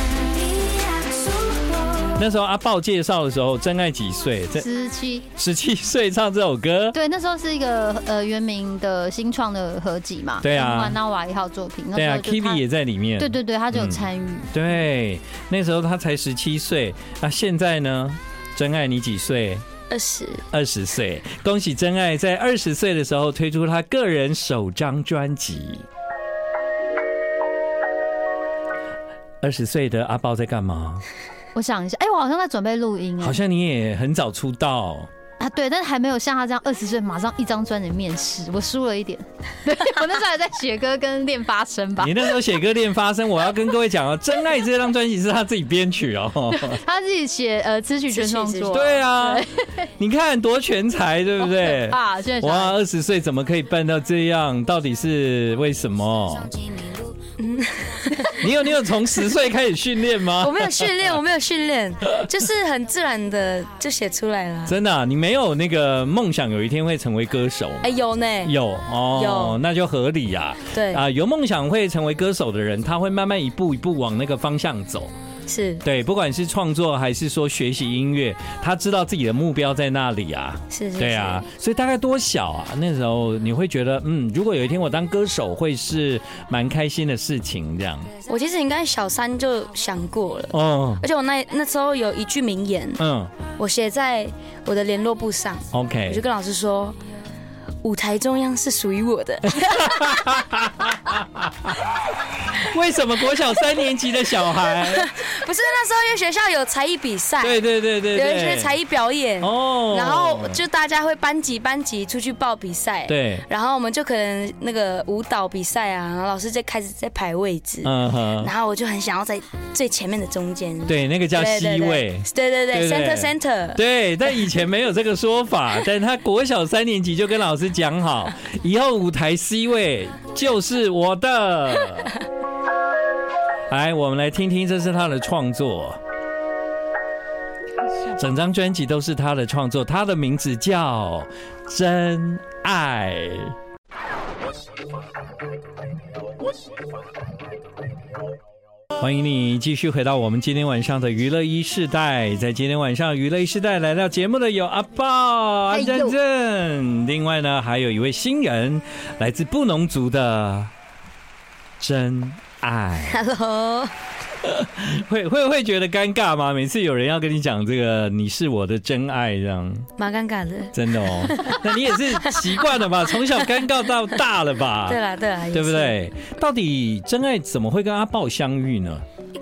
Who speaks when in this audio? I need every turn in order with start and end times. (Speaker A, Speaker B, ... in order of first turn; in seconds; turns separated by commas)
Speaker A: 0.5-2.0, Speaker B: 2.1-4.7, Speaker C: 4.6-5.3, Speaker B: 5.4-7.0, Speaker C: 6.9-12.6, Speaker B: 10.4-11.0, Speaker B: 11.9-19.6, Speaker C: 13.2-14.7, Speaker A: 19.9-20.4, Speaker B: 20.5-25.8, Speaker B: 29.4-31.0, Speaker C: 31.5-33.4, Speaker B: 33.2-35.1, Speaker C: 35.4-42.4, Speaker B: 42.0-46.8, Speaker C: 46.5-49.8, Speaker A: 48.1-48.9, Speaker B: 48.7-49.5, Speaker B: 50.0-56.5, Speaker C: 51.4-52.8, Speaker A: 57.4-58.5, Speaker B: 58.3-60.9, Speaker A: 60.4-64.8, Speaker B: 64.7-67.9, Speaker A: 67.8-68.5, Speaker B: 68.4-75.1, Speaker A: 69.1-69.6, Speaker A: 70.7-71.0, Speaker A: 75.5-75.8, Speaker B: 75.8-88.1, Speaker A: 80.7-81.5, Speaker A: 88.2-93.0, Speaker B: 90.5-91.0, Speaker B: 93.0-93.3, Speaker A: 93.6-97.0, Speaker B: 95.7-96.2, Speaker A: 97.8-100.4, Speaker B: 99.5-101.7, Speaker B: 102.5-105.1, Speaker A: 104.6-123.8, Speaker B: 107.4-108.8, Speaker B: 109.4-110.6, Speaker B: 113.1-113.5, Speaker B: 117.8-118.5, Speaker B: 120.8-132.2, Speaker B: 133.7-136.0, Speaker B: 138.1-143.5, Speaker B: 149.0-160.7, Speaker C: 155.7-156.2, Speaker B: 161.8-163.2, Speaker A: 163.0-163.9, Speaker B: 164.4-169.9, Speaker A: 170.0-171.7, Speaker B: 170.7-175.0, Speaker A: 174.8-176.0, Speaker B: 175.5-179.0